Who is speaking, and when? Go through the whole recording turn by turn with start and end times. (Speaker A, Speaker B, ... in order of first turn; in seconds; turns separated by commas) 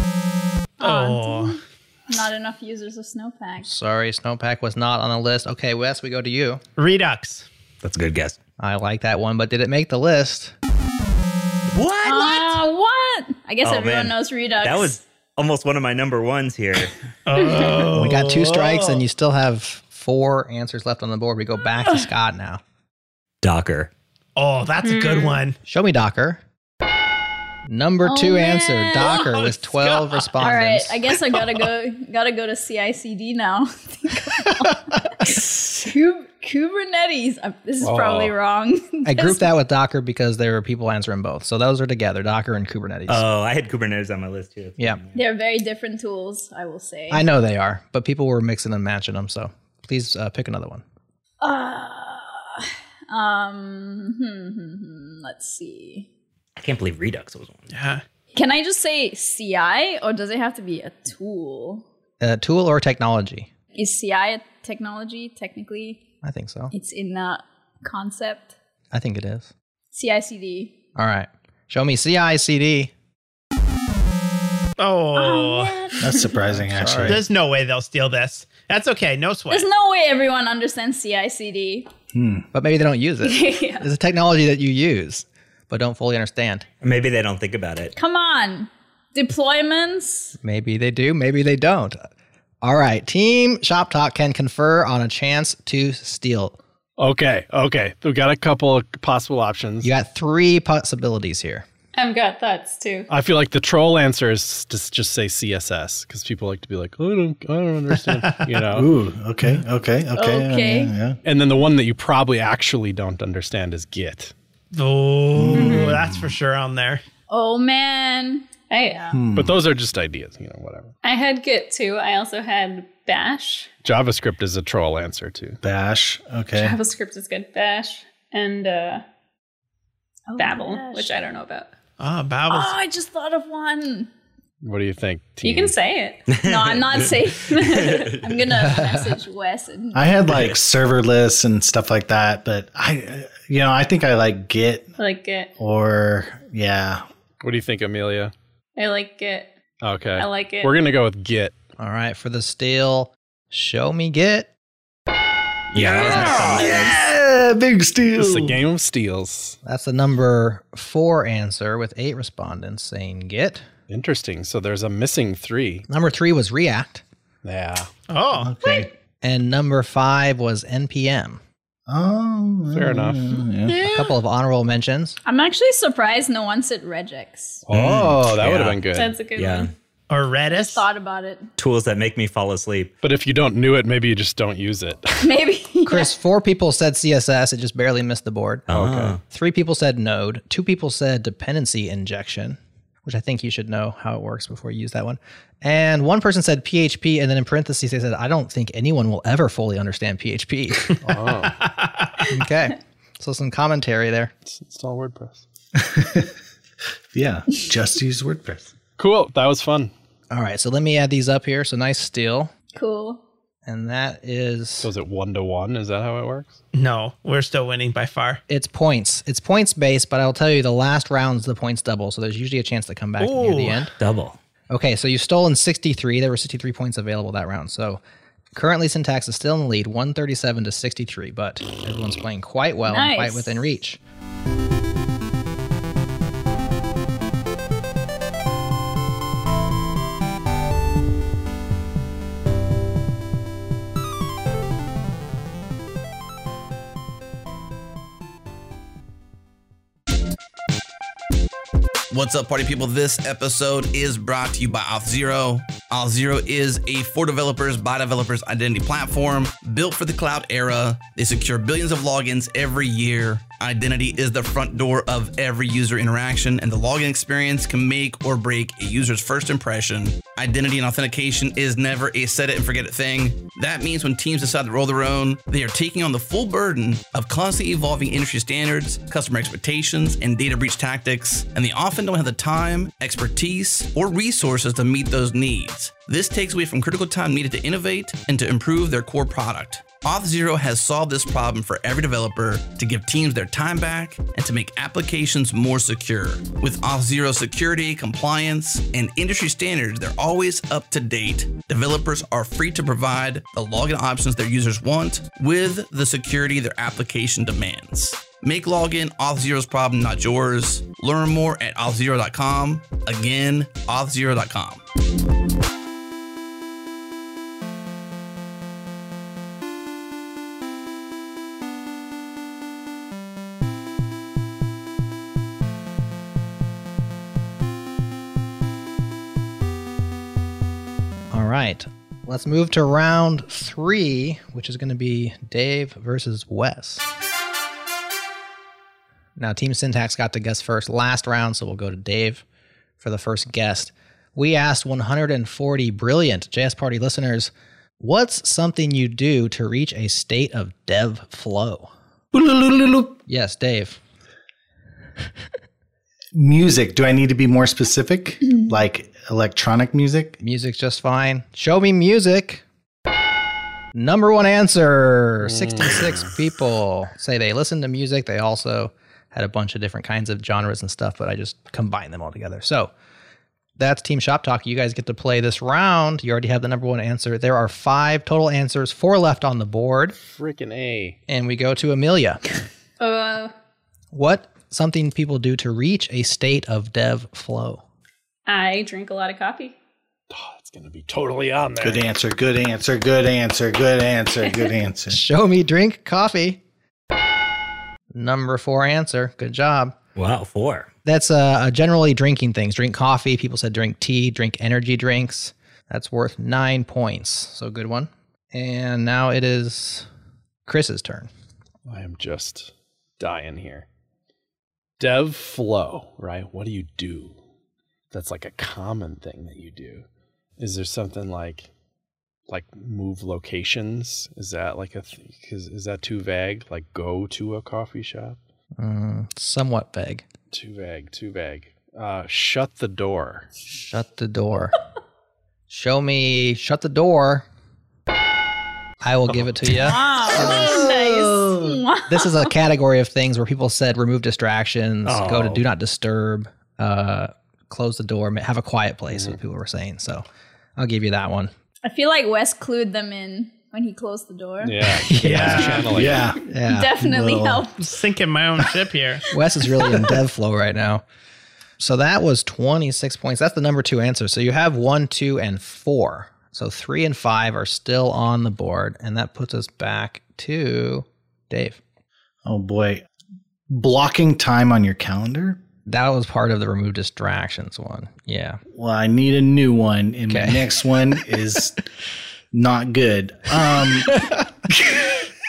Speaker A: 0.8-3.7, Speaker B: 0.8-1.6, Speaker C: 3.6-6.6, Speaker B: 6.8-7.5, Speaker D: 7.8-8.4, Speaker C: 8.6-10.5, Speaker D: 11.7-12.6, Speaker A: 12.0-15.0, Speaker D: 13.6-16.9, Speaker B: 17.3-19.0, Speaker A: 17.3-17.9, Speaker C: 17.9-22.6, Speaker D: 23.4-23.9, Speaker B: 24.4-25.6, Speaker E: 24.8-25.4, Speaker C: 25.7-26.4, Speaker C: 27.7-31.1, Speaker A: 28.0-29.4, Speaker B: 29.0-30.5, Speaker A: 30.4-39.4, Speaker F: 37.8-38.3, Speaker C: 39.0-43.2, Speaker D: 43.1-45.2, Speaker A: 45.1-47.3, Speaker C: 47.1-50.8, Speaker A: 51.4-56.1, Speaker D: 56.6-57.7, Speaker B: 57.7-58.0, Speaker A: 58.3-61.9, Speaker C: 62.2-63.5, Speaker A: 63.7-66.0, Speaker C: 66.2-66.7, Speaker A: 66.7-68.5, Speaker C: 68.9-69.5, Speaker A: 69.9-70.8, Speaker C: 71.0-72.9, Speaker B: 74.8-75.8, Speaker A: 75.1-76.5, Speaker G: 76.0-77.2, Speaker C: 76.5-77.3, Speaker B: 77.0-79.7, Speaker A: 79.5-81.9, Speaker G: 82.1-82.5, Speaker C: 82.5-86.7, Speaker D: 86.8-88.0, Speaker A: 88.0-90.4, Speaker C: 90.4-92.0, Speaker C: 92.6-96.6, Speaker F: 97.0-99.9, Speaker C: 99.8-101.7, Speaker E: 102.0-103.1, Speaker F: 103.1-109.0, Speaker G: 108.7-111.2, Speaker A: 110.2-110.9, Speaker F: 111.2-114.3, Speaker B: 114.7-117.0, Speaker G: 115.3-116.3, Speaker E: 115.5-115.9, Speaker A: 117.3-119.1, Speaker E: 118.7-119.2, Speaker G: 119.1-119.6, Speaker F: 119.3-120.9, Speaker E: 121.0-123.7, Speaker F: 123.8-125.6, Speaker G: 125.6-126.8, Speaker E: 126.5-129.0, Speaker A: 130.3-131.2, Speaker E: 130.4-131.7, Speaker B: 132.0-132.8, Speaker A: 132.5-134.1, Speaker F: 134.6-135.8, Speaker E: 135.4-136.3, Speaker D: 136.3-138.4, Speaker A: 136.4-140.1, Speaker C: 138.5-139.2, Speaker G: 139.9-144.9, Speaker E: 145.0-145.5, Speaker G: 145.6-147.0, Speaker F: 147.4-148.3, Speaker E: 148.8-149.5, Speaker F: 149.8-151.5, Speaker E: 150.2-150.8, Speaker C: 151.8-154.5, Speaker D: 155.7-157.0, Speaker G: 155.7-158.6, Speaker C: 156.0-156.9, Speaker F: 158.1-159.6, Speaker C: 159.6-163.7, Speaker F: 163.9-165.8, Speaker C: 165.9-167.0, Speaker F: 167.4-167.9, Speaker B: 168.1-168.9, Speaker G: 168.4-168.9, Speaker C: 169.2-171.4, Speaker G: 171.9-173.8, Speaker F: 172.7-173.4, Speaker B: 173.7-174.2, Speaker C: 173.8-175.2, Speaker A: 175.2-177.7, Speaker F: 177.7-179.2, Speaker D: 177.7-179.7, Speaker E: 178.9-179.7, Speaker B: 180.1-180.9, Speaker A: 180.5-181.5, Speaker D: 181.6-182.9, Speaker F: 183.0-185.3, Speaker A: 185.2-186.1, Speaker C: 185.9-200.9, Speaker D: 188.7-189.2, Speaker F: 201.0-201.6, Speaker B: 201.4-202.2, Speaker C: 202.3-204.3, Speaker F: 204.4-205.4, Speaker G: 205.8-206.3, Speaker G: 207.1-208.7, Speaker F: 209.0-209.9, Speaker C: 210.3-212.5, Speaker A: 212.7-213.2, Speaker C: 213.7-214.9, Speaker F: 214.8-216.6, Speaker B: 216.7-218.4, Speaker C: 218.5-223.9, Speaker B: 223.2-223.9, Speaker D: 224.0-224.4, Speaker C: 224.7-228.0, Speaker C: 228.5-234.0, Speaker A: 232.9-233.6, Speaker H: 252.1-314.8, Speaker C: 331.3-337.1, Speaker C: 339.4-342.4, Speaker C: 343.0-351.9, Speaker G: 352.3-353.2, Speaker C: 353.3-354.0, Speaker G: 356.3-360.4, Speaker C: 360.4-362.6, Speaker C: 363.9-372.9, Speaker F: 365.4-366.3, Speaker C: 373.8-380.2, Speaker F: 380.2-381.2, Speaker C: 381.3-382.4, Speaker E: 383.0-383.5, Speaker C: 384.1-387.8, Speaker E: 388.5-389.8, Speaker F: 390.3-392.1, Speaker G: 391.8-395.2, Speaker C: 395.1-396.6, Speaker C: 398.1-400.0, Speaker D: 400.2-400.9, Speaker C: 401.1-410.1, Speaker C: 410.7-411.3, Speaker F: 411.9-413.9, Speaker F: 415.0-417.4, Speaker F: 418.1-420.1, Speaker F: 420.6-421.7, Speaker F: 422.5-428.4, Speaker C: 428.8-430.2, Speaker F: 430.5-433.5, Speaker C: 433.8-434.8, Speaker C: 435.7-437.5, Speaker C: 439.0-440.6, Speaker A: 439.7-442.5, Speaker G: 440.3-441.8, Speaker C: 442.1-450.2, Speaker D: 445.1-445.6, Speaker F: 449.1-449.4, Speaker C: 450.8-451.5, Speaker A: 451.8-455.0, Speaker F: 454.6-456.3, Speaker C: 455.0-457.0, Speaker B: 455.3-455.9, Speaker G: 455.8-456.4, Speaker A: 456.7-457.9, Speaker G: 457.0-457.7, Speaker B: 457.8-459.2, Speaker C: 459.3-461.0, Speaker C: 461.8-471.8, Speaker G: 472.4-473.1, Speaker G: 473.7-475.6, Speaker C: 475.9-478.6, Speaker G: 478.7-481.8, Speaker C: 480.3-480.7, Speaker G: 482.5-485.2